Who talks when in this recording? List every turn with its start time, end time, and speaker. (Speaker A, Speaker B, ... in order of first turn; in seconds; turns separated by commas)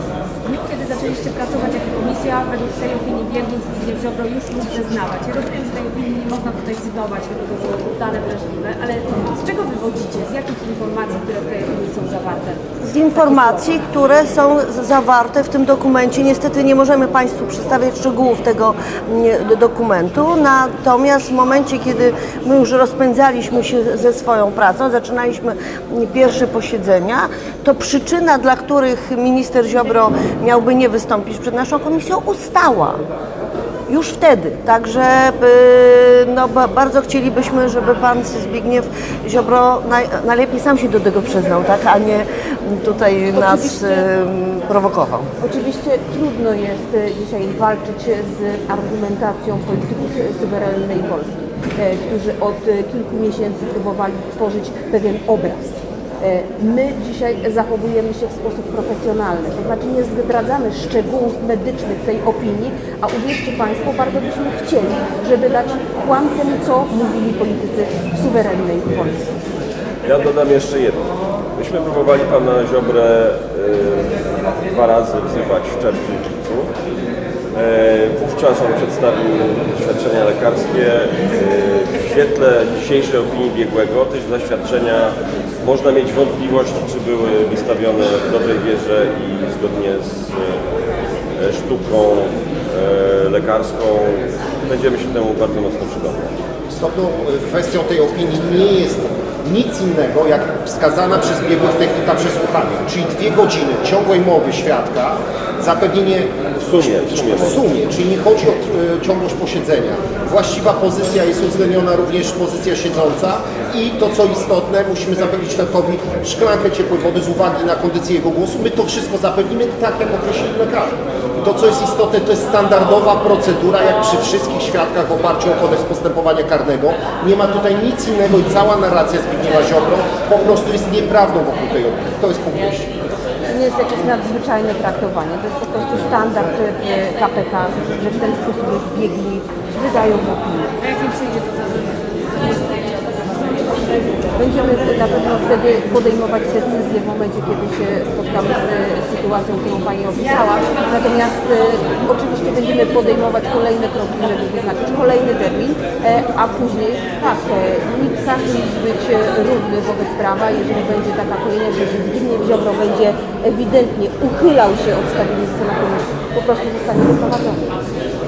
Speaker A: 0.4-12.6, Speaker B: 12.8-33.0, Speaker A: 13.1-13.8, Speaker B: 33.9-45.3, Speaker C: 43.3-44.1, Speaker C: 45.4-69.3, Speaker D: 70.0-76.7, Speaker D: 77.5-90.6, Speaker D: 91.4-96.3, Speaker E: 96.7-132.9, Speaker D: 106.6-107.7, Speaker C: 133.5-140.7, Speaker A: 140.8-144.1, Speaker C: 144.3-167.6